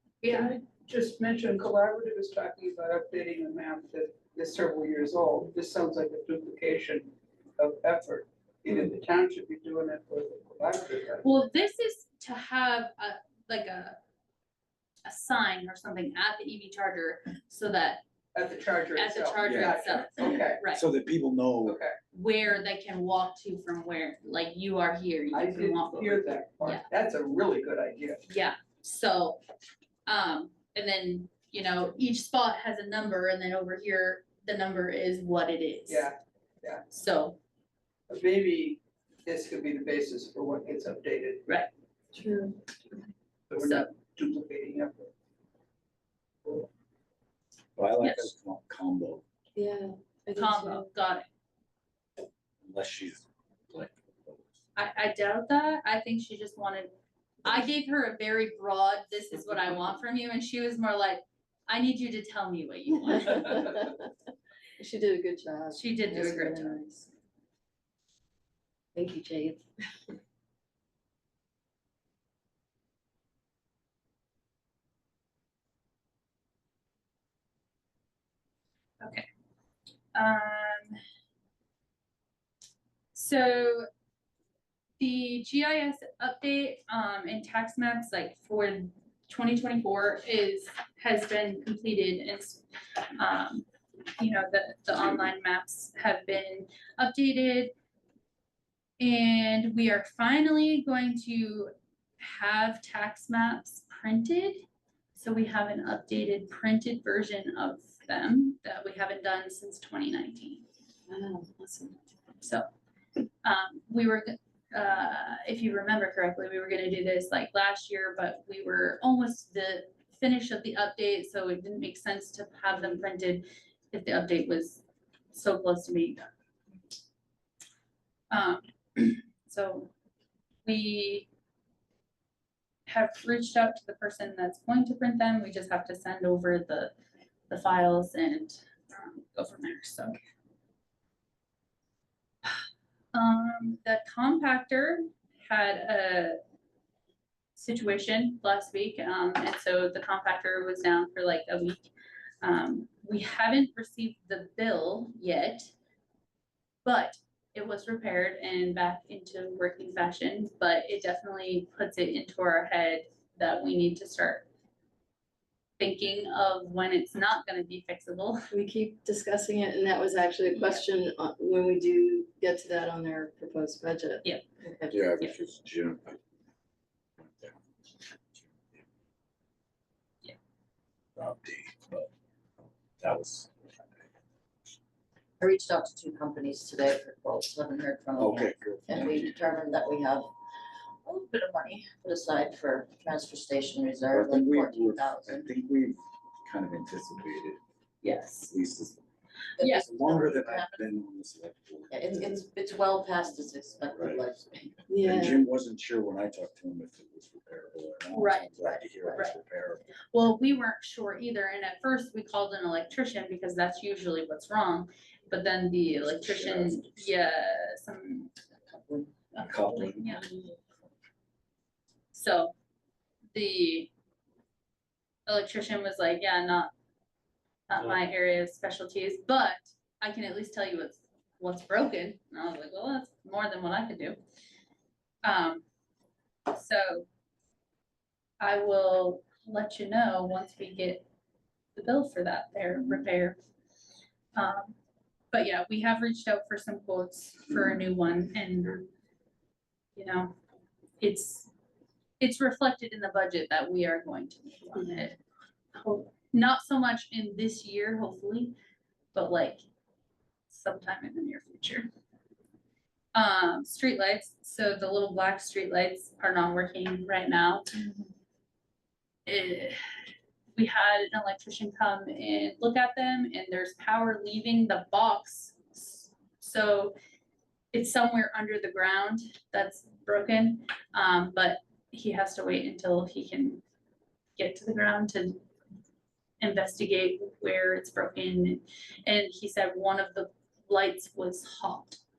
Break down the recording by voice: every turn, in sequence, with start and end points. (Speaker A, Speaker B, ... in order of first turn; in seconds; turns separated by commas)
Speaker A: 0.2-0.5, Speaker B: 0.2-11.3, Speaker A: 11.2-14.0, Speaker A: 15.0-18.0, Speaker B: 18.3-20.6, Speaker A: 18.9-20.8, Speaker C: 19.4-21.8, Speaker B: 21.6-21.9, Speaker A: 22.1-26.8, Speaker B: 25.3-28.2, Speaker A: 28.3-29.4, Speaker A: 30.1-36.1, Speaker B: 35.9-36.8, Speaker A: 36.9-37.4, Speaker B: 38.1-41.4, Speaker D: 42.1-42.6, Speaker B: 43.5-45.1, Speaker A: 43.6-43.9, Speaker C: 47.8-49.2, Speaker A: 48.0-48.3, Speaker D: 49.5-50.9, Speaker A: 50.3-51.2, Speaker C: 52.6-54.5, Speaker A: 54.8-56.9, Speaker A: 57.4-63.8, Speaker D: 63.1-64.1, Speaker D: 64.8-67.1, Speaker A: 65.7-67.0, Speaker D: 68.9-70.1, Speaker A: 79.0-79.2, Speaker A: 80.1-81.0, Speaker A: 83.1-83.9, Speaker A: 85.0-92.6, Speaker A: 93.2-93.7, Speaker A: 94.2-97.7, Speaker A: 99.0-110.6, Speaker D: 111.1-112.0, Speaker A: 112.4-112.7, Speaker A: 113.4-126.3, Speaker A: 128.3-129.9, Speaker A: 130.6-131.3, Speaker A: 132.9-136.9, Speaker A: 137.5-140.2, Speaker A: 143.1-146.3, Speaker A: 147.6-155.7, Speaker A: 156.8-164.4, Speaker A: 165.8-168.4, Speaker D: 168.5-175.0, Speaker A: 170.5-170.8, Speaker C: 174.9-176.2, Speaker C: 177.2-177.6, Speaker C: 178.3-178.8, Speaker C: 181.2-182.1, Speaker C: 183.0-184.0, Speaker E: 185.4-190.3, Speaker C: 188.2-189.6, Speaker E: 191.0-195.5, Speaker C: 194.1-197.6, Speaker A: 198.0-198.6, Speaker C: 198.5-199.0, Speaker E: 199.6-200.8, Speaker C: 199.6-202.4, Speaker E: 201.9-204.8, Speaker C: 203.9-204.2, Speaker D: 204.9-205.4, Speaker C: 204.9-210.0, Speaker A: 208.1-208.5, Speaker E: 208.6-209.3, Speaker A: 210.1-220.3, Speaker C: 216.1-217.1, Speaker C: 219.4-220.8, Speaker A: 222.1-222.5, Speaker A: 223.3-223.9, Speaker A: 225.3-226.7, Speaker A: 227.7-234.2, Speaker A: 235.2-235.6, Speaker A: 236.5-237.1, Speaker A: 238.4-241.1, Speaker A: 241.8-243.4, Speaker A: 244.3-244.7, Speaker A: 245.3-248.9, Speaker A: 249.9-250.3, Speaker A: 251.0-251.5, Speaker A: 252.2-255.2, Speaker D: 254.8-255.0, Speaker A: 255.7-258.5, Speaker A: 259.1-259.6, Speaker A: 260.5-261.9, Speaker A: 263.1-267.8, Speaker A: 269.2-269.8, Speaker A: 270.5-276.9, Speaker A: 277.7-283.6, Speaker A: 284.4-285.4, Speaker A: 286.4-292.0